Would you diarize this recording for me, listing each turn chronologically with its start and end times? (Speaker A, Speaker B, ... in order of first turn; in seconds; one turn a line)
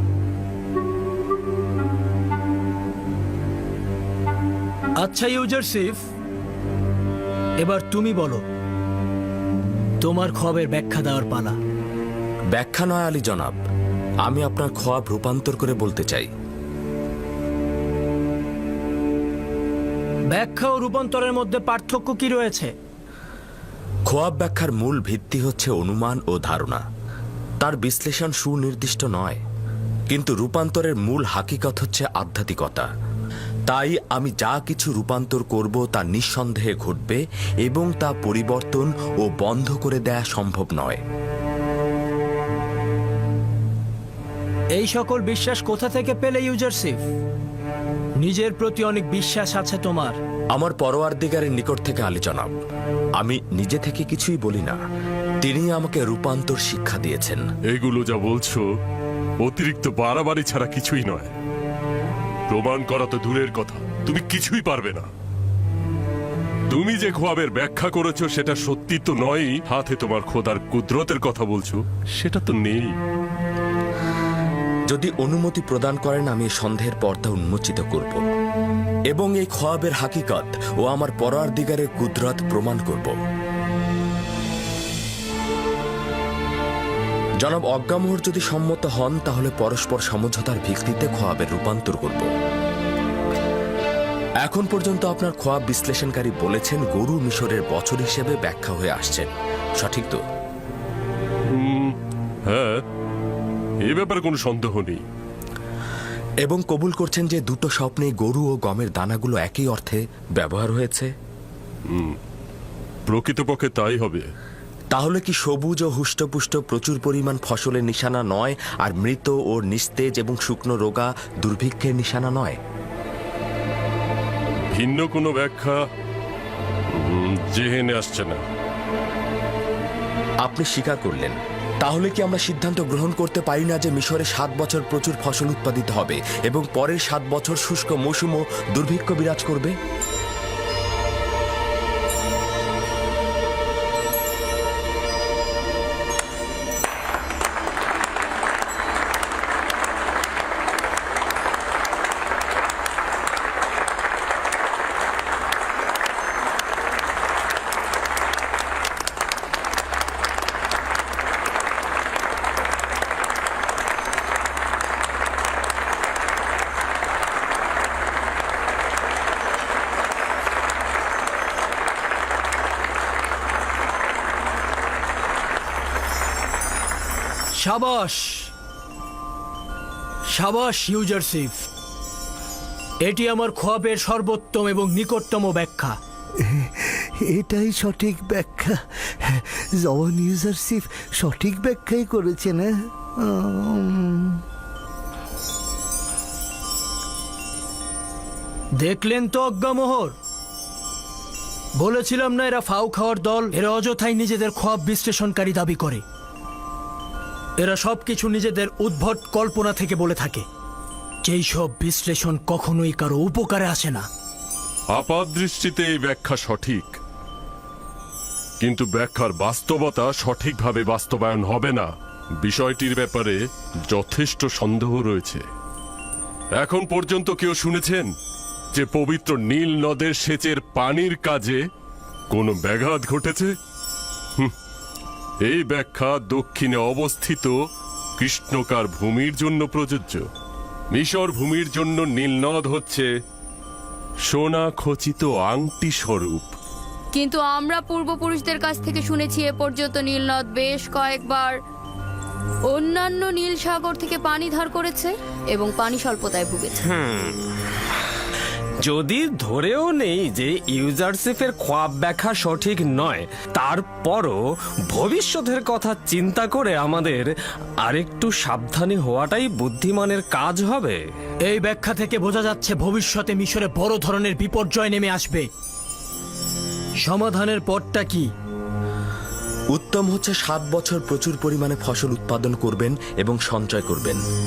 Speaker A: 5.0-6.1
Speaker A: 7.6-8.4
Speaker A: 10.0-11.6
Speaker B: 12.5-13.6
Speaker B: 14.2-16.3
Speaker A: 20.3-22.7
Speaker B: 24.1-26.8
Speaker B: 27.6-29.4
Speaker B: 30.1-32.9
Speaker B: 33.7-41.0
Speaker A: 44.8-47.1
Speaker A: 48.2-50.2
Speaker B: 50.5-52.5
Speaker B: 53.2-54.8
Speaker B: 55.4-57.4
Speaker C: 57.7-58.6
Speaker C: 59.4-61.3
Speaker C: 62.5-65.1
Speaker C: 66.7-72.9
Speaker B: 74.9-78.2
Speaker B: 79.1-83.1
Speaker B: 87.4-92.3
Speaker B: 94.4-100.2
Speaker C: 101.6-101.9
Speaker C: 102.5-102.8
Speaker C: 103.9-105.0
Speaker B: 106.4-111.1
Speaker C: 111.9-112.2
Speaker C: 113.1-114.3
Speaker B: 114.9-122.6
Speaker C: 124.7-125.8
Speaker C: 126.9-128.4
Speaker B: 130.4-139.7
Speaker A: 177.6-178.5
Speaker A: 180.3-181.7
Speaker A: 183.0-186.0
Speaker D: 186.4-186.7
Speaker D: 187.3-192.7
Speaker D: 193.2-194.4
Speaker A: 198.8-200.1
Speaker A: 201.8-206.0
Speaker A: 207.6-210.4
Speaker A: 211.2-214.1
Speaker C: 214.9-216.9
Speaker C: 218.6-221.9
Speaker C: 222.4-223.4
Speaker C: 223.9-225.4
Speaker C: 226.6-228.1
Speaker C: 228.7-231.6
Speaker C: 232.3-233.5
Speaker C: 235.4-237.5
Speaker C: 238.2-240.2
Speaker C: 240.9-243.1
Speaker C: 244.3-246.5
Speaker E: 247.1-251.6
Speaker E: 252.7-256.9
Speaker F: 256.9-257.3
Speaker F: 258.8-267.3
Speaker F: 267.8-271.0
Speaker A: 271.4-275.5
Speaker A: 277.0-278.3
Speaker B: 279.7-284.2